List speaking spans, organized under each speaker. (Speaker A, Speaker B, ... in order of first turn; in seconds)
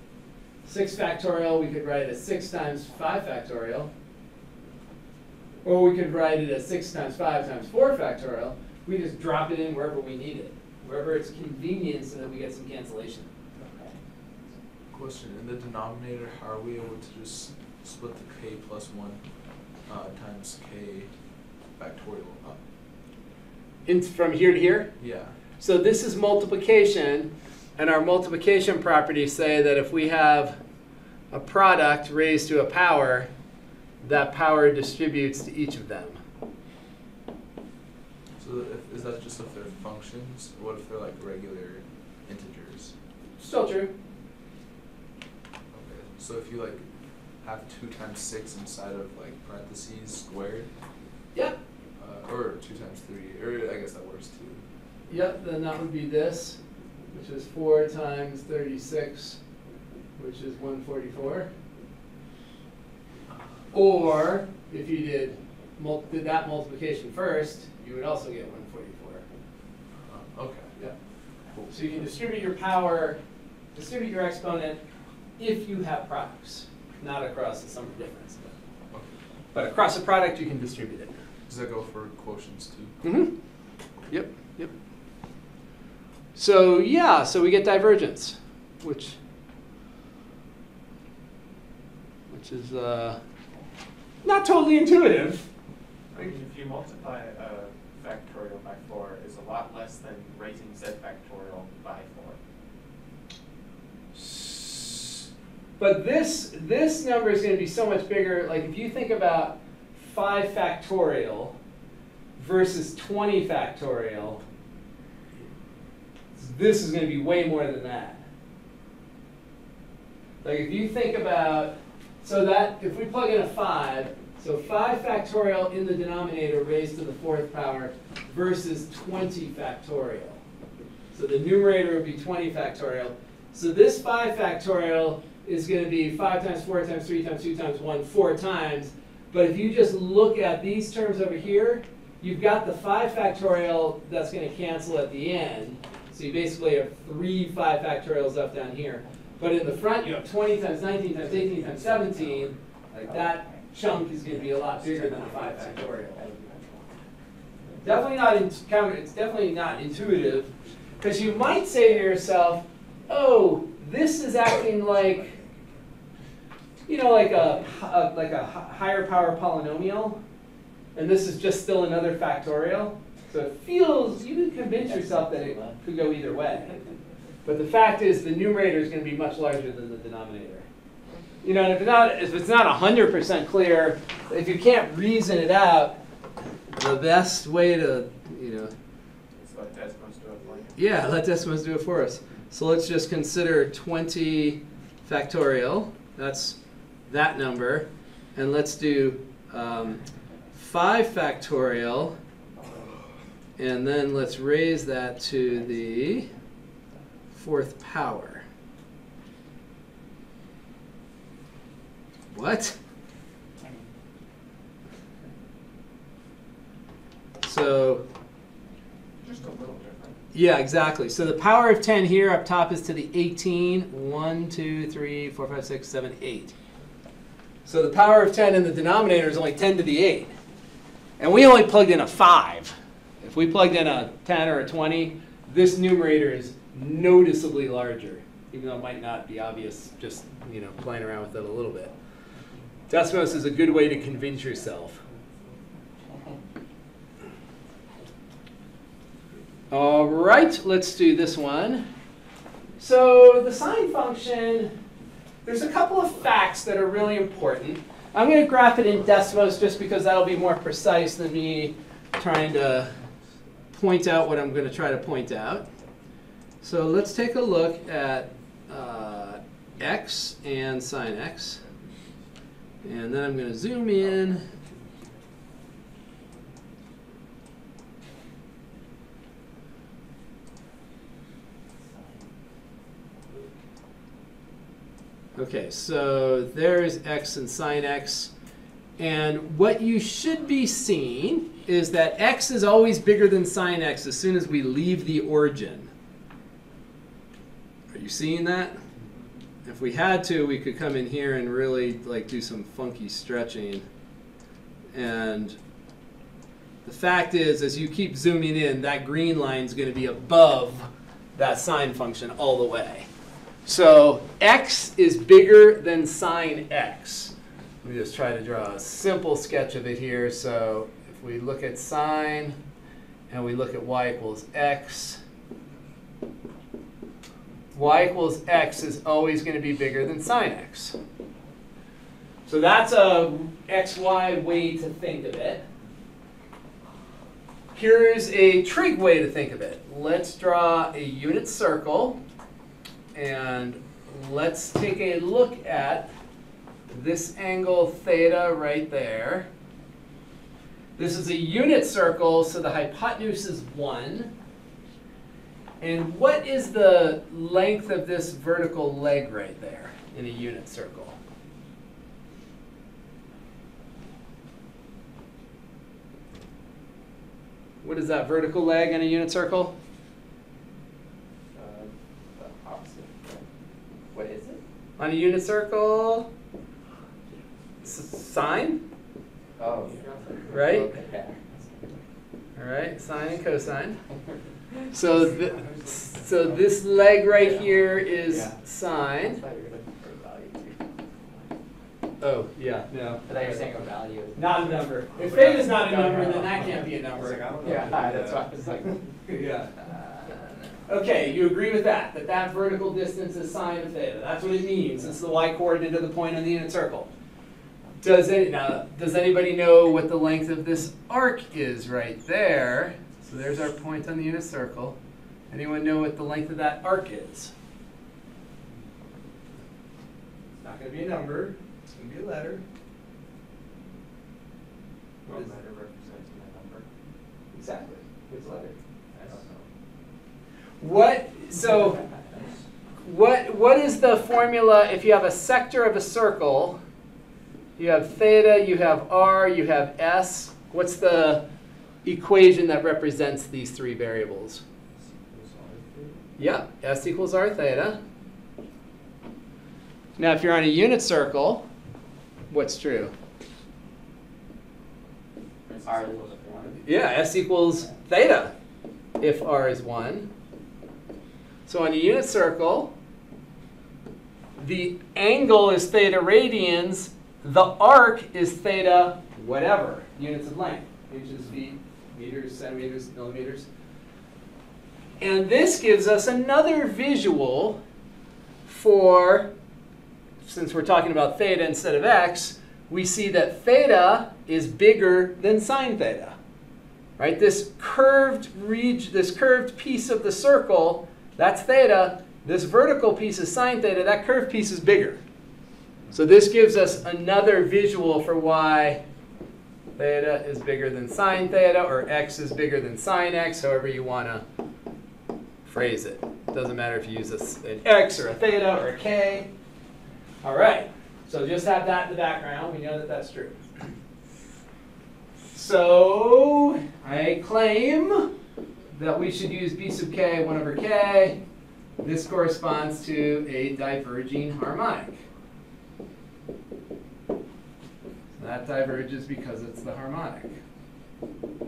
Speaker A: 0.6-3.9, 5.6-13.3, 23.9-24.9, 25.6-30.6, 31.3-33.3, 34.0-36.2, 43.4-43.9, 55.1-56.6, 57.1-59.4, 60.2-61.5, 63.7-69.2, 71.7-73.2, 73.7-74.8, 75.4-78.5, 79.5-81.1, 83.0-83.3, 84.1-84.7, 86.3-89.2, 92.3-93.2, 94.2-95.4, 104.1-105.3, 105.8-111.5, 112.4-114.4, 116.3-118.2, 120.4-130.4, 131.1-156.2, 157.8-165.3, 166.9-170.2, 170.9-176.7, 177.4-180.7, 181.4-185.9, 186.8-188.7, 190.8-196.6, 197.1-200.0, 200.5-202.2, 203.6-206.3, 207.3-208.4, 212.3-212.8, 217.4-218.0, 220.3-226.5, 227.7-230.3, 231.2-241.9, 242.9-245.0, 249.7-251.9, 252.8-254.7, 255.4-262.9, 263.7-265.7, 266.6-271.6, 272.8-274.5, 285.4-288.3, 289.0-295.9, 297.9-298.8, 299.6-303.9, 304.9-305.6, 306.8-313.1, 313.6-322.6, 323.3-325.2, 327.7-330.9, 332.4-335.6, 337.7-342.2, 343.1-346.1, 346.9-349.5, 351.0-354.3, 355.8-361.1, 367.8-369.7, 375.0-376.3, 377.8-378.8, 380.5-380.9, 382.6-384.0, 384.9-389.4, 392.2-393.7, 394.3-398.2, 399.2-399.7, 400.9-407.1, 408.0-414.9, 415.5-417.5, 420.6-422.6, 427.5-429.4, 430.8-432.0, 433.0-436.8, 437.8-441.4, 442.0-444.6, 446.4-448.0, 450.2-451.7, 452.5-453.1, 456.8-458.5, 459.2-460.3, 461.7-462.9, 464.6-473.7, 475.2-477.8, 478.6-479.5, 480.4-486.4, 487.2-495.2, 496.1-499.0, 500.0-504.4, 505.6-509.5, 510.4-513.6, 515.5-518.3, 518.9-521.4, 522.0-525.2, 528.4-530.5
Speaker B: 13.6-14.0, 151.7-152.2, 153.1-156.9, 157.6-158.0, 175.1-175.8, 246.0-246.4, 281.9-282.2, 371.5-373.4, 374.1-374.6, 379.6-381.9, 386.3-386.6, 387.4-391.1, 393.3-394.8, 396.1-396.6, 397.6-399.0, 399.8-400.4, 455.8-456.8
Speaker C: 14.9-19.2, 19.9-21.1, 21.8-22.6, 25.0-25.3, 38.4-42.9, 45.7-46.8, 47.4-50.7, 52.0-54.6, 70.0-70.8, 81.5-83.0, 165.3-165.8
Speaker D: 96.1-102.4, 189.3-190.8, 219.2-220.2, 379.8-380.5, 395.2-398.4, 425.2-426.9, 429.2-429.6, 445.3-446.1, 455.7-456.8